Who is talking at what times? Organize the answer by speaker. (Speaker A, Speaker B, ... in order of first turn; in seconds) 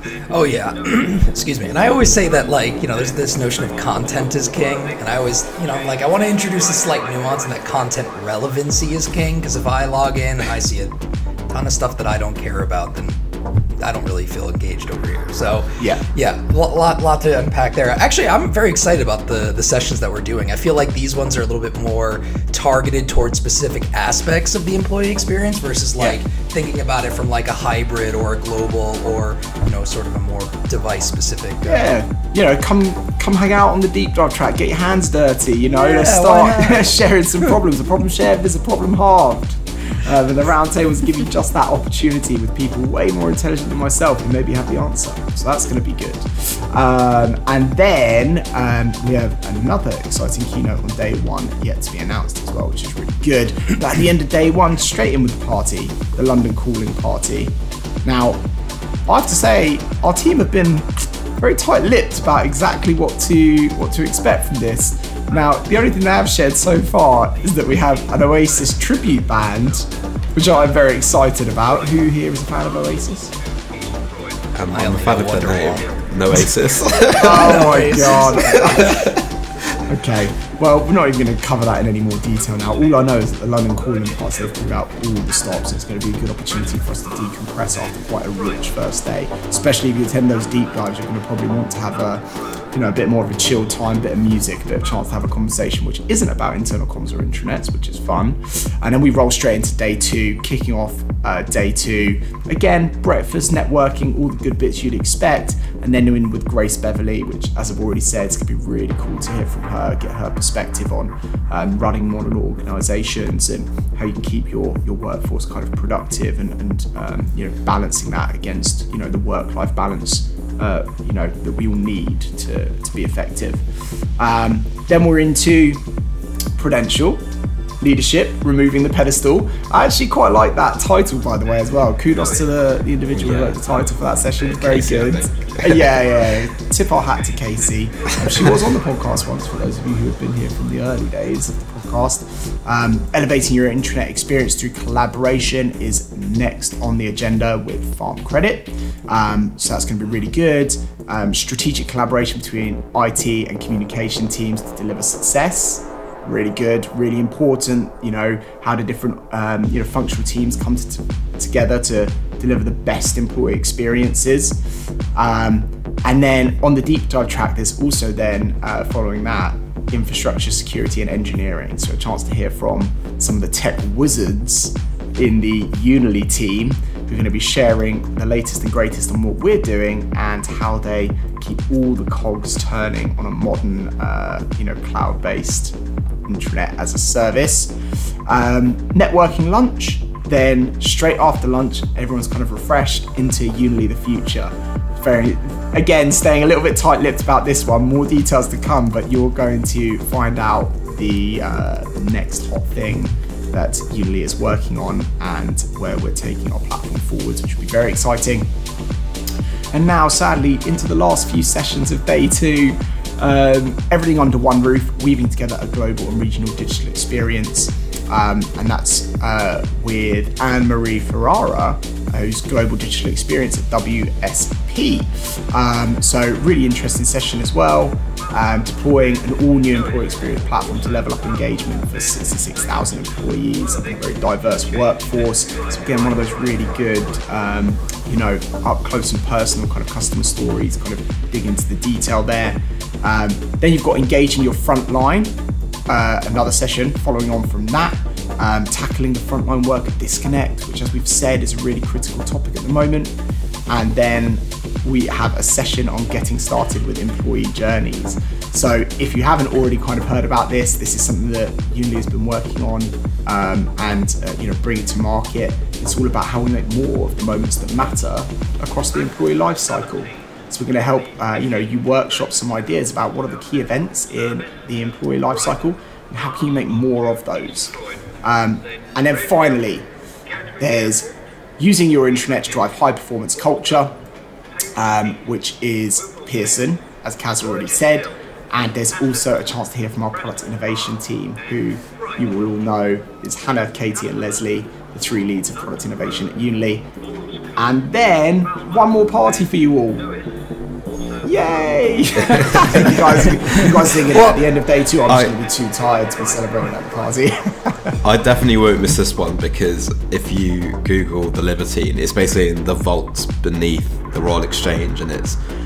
Speaker A: 0.3-10.9, 11.5-13.2, 13.8-31.9, 35.8-36.9, 74.7-78.7
Speaker B: 15.8-16.0, 31.6-58.4, 59.1-73.3, 77.1-79.1, 79.9-123.6, 124.2-125.8, 126.6-127.2, 127.8-164.6, 165.1-185.8, 186.3-187.7, 188.3-208.5, 209.7-245.3, 245.9-253.1, 253.7-279.9, 280.6-283.9, 284.8-296.9, 297.6-300.1, 301.2-307.9
Speaker C: 74.5-77.8, 78.4-79.2, 133.1-133.6, 134.4-136.2, 302.2-303.1, 303.6-304.2, 305.1-305.3, 308.0-315.4